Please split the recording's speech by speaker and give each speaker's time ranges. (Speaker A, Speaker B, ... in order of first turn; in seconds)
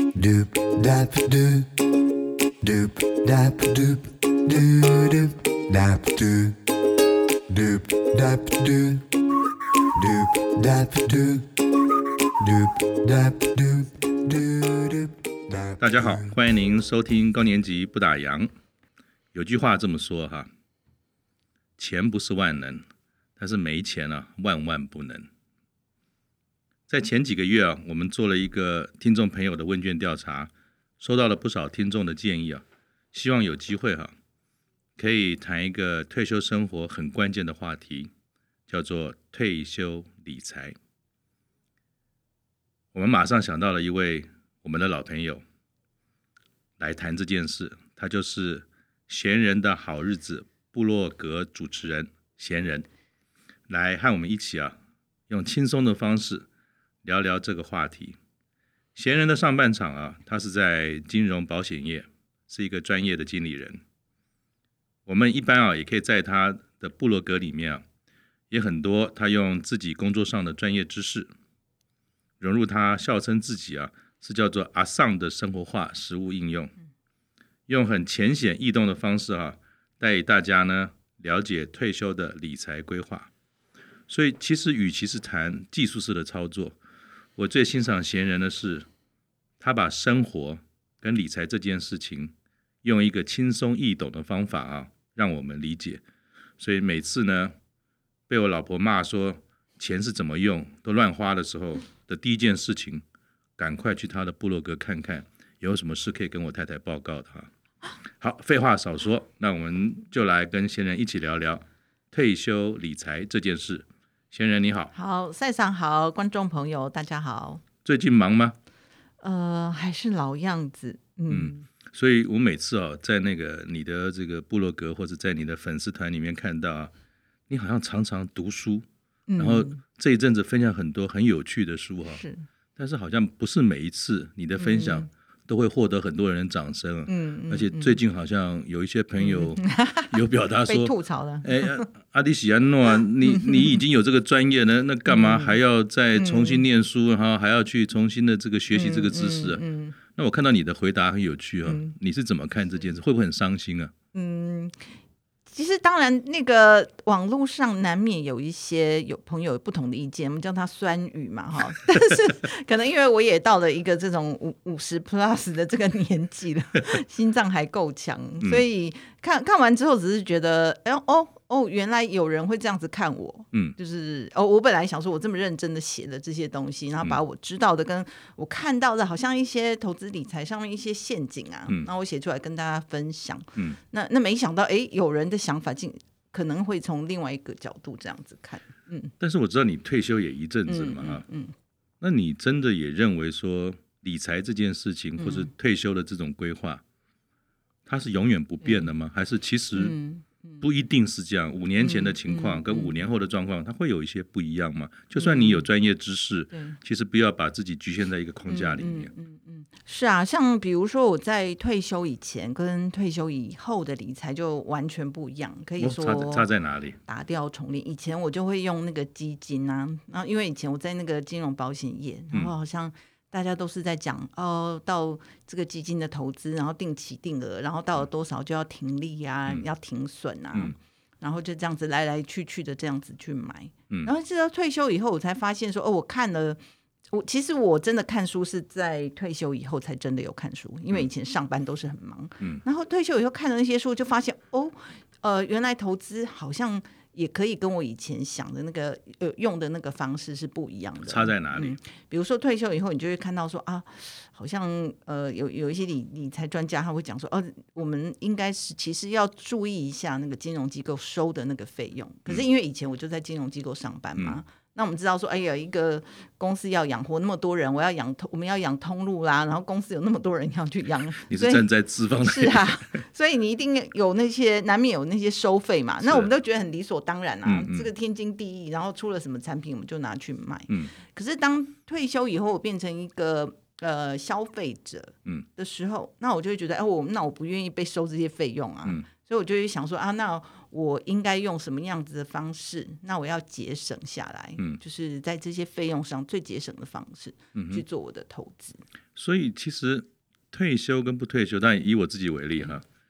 Speaker A: 0.1-1.9, 2.6-6.7, 7.5-9.1, 9.9-11.7, 12.4-16.4
Speaker B: 15.8-18.5, 19.3-20.5, 21.8-22.9, 23.4-25.3, 26.9-34.1, 35.0-38.1, 38.7-40.8, 42.9-45.4, 46.8-52.9, 53.7-54.8, 55.3-56.5, 57.0-58.2, 59.0-63.8, 65.1-67.8, 68.5-71.3, 72.4-76.7, 77.7-83.3, 84.1-86.8, 87.4-88.9, 89.6-92.3, 92.8-96.0, 96.6-97.5, 98.3-103.0, 103.6-107.5, 108.2-114.9, 117.8-118.6, 121.3-126.9, 127.5-128.9, 129.4-132.2, 132.8-153.9, 189.2-191.2, 192.0-196.8, 197.9-199.9, 200.6-209.1, 215.8-217.0, 251.0-251.8, 271.3-273.0, 276.0-276.3, 277.4-277.9, 297.6-297.8, 299.2-302.8
Speaker C: 114.9-117.6, 119.2-121.7, 129.3-129.8, 132.1-132.5, 134.6-135.1, 137.1-138.0, 139.2-141.9, 143.3-143.8, 145.1-145.6, 146.2-146.7, 148.7-150.0, 151.7-151.9, 154.1-154.8, 155.5-189.1, 190.7-191.5, 195.2-195.5, 198.6-198.9, 199.7-200.7, 201.8-203.0, 205.2-205.7, 206.5-206.8, 208.5-216.5, 217.1-236.6, 237.1-298.8